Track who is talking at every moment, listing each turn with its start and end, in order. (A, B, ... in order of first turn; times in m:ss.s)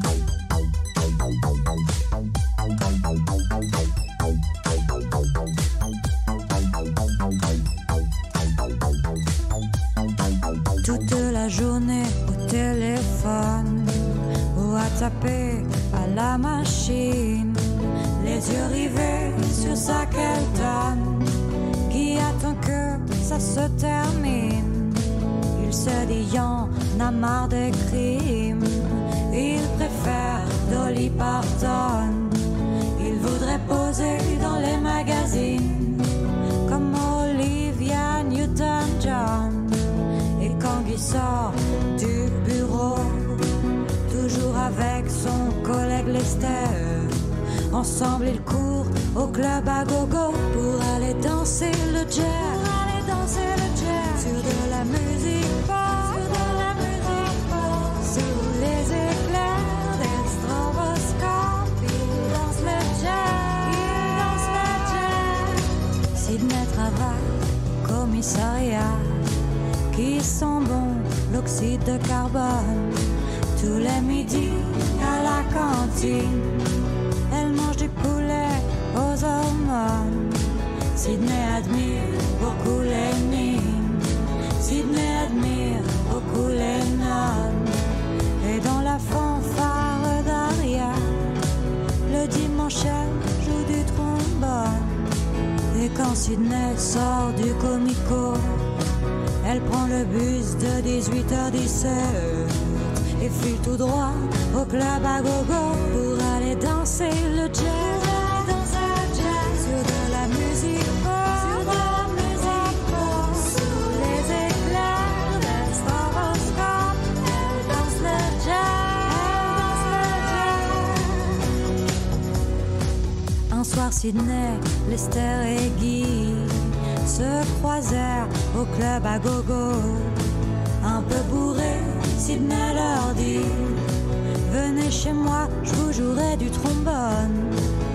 0:10.8-0:47.2 A
0:47.7-1:09.2 A
1:09.9-1:27.8 A
1:28.4-1:31.4 A
1:32.1-1:35.1 A
1:35.7-1:38.7 A
1:39.4-2:01.4 A
2:03.5-2:10.2 A
2:10.8-2:13.9 A
2:14.4-2:17.6 A